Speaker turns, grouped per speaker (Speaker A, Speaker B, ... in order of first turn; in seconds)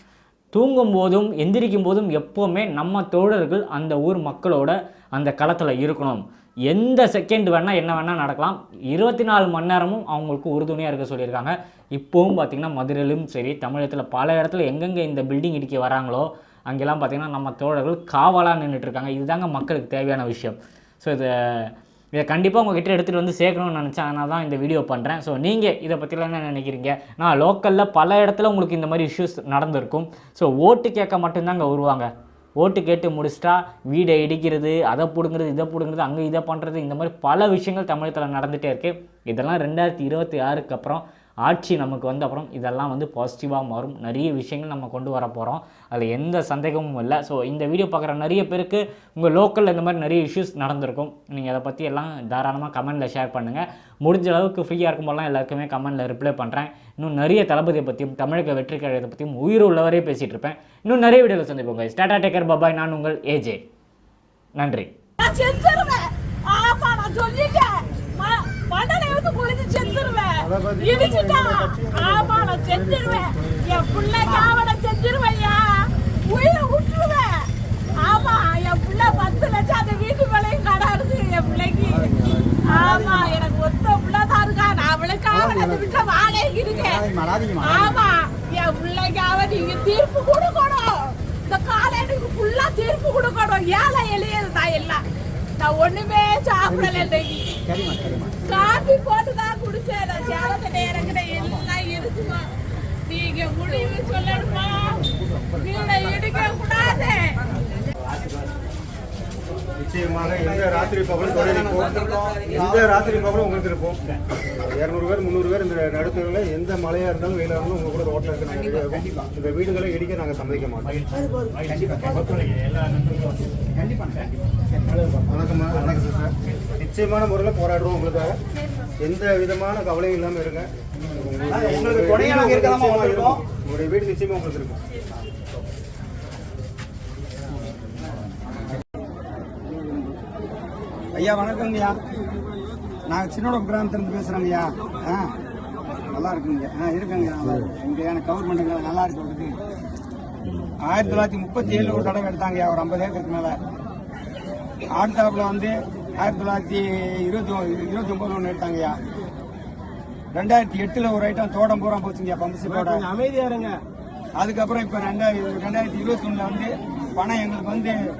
Speaker A: 0.5-32.1, 32.6-63.6, 64.6-64.9
Speaker B: 65.2-77.3, 78.0-82.1, 82.6-95.0, 95.6-97.5, 98.4-102.4, 103.1-105.0, 105.6-107.2
Speaker C: 70.4-73.0, 81.9-82.5, 109.8-114.0, 114.6-121.0, 125.0-128.4, 129.0-134.8
Speaker D: 141.1-142.0, 143.1-145.3, 146.1-149.6, 150.8-153.6, 154.9-158.9, 160.3-163.1, 164.4-168.0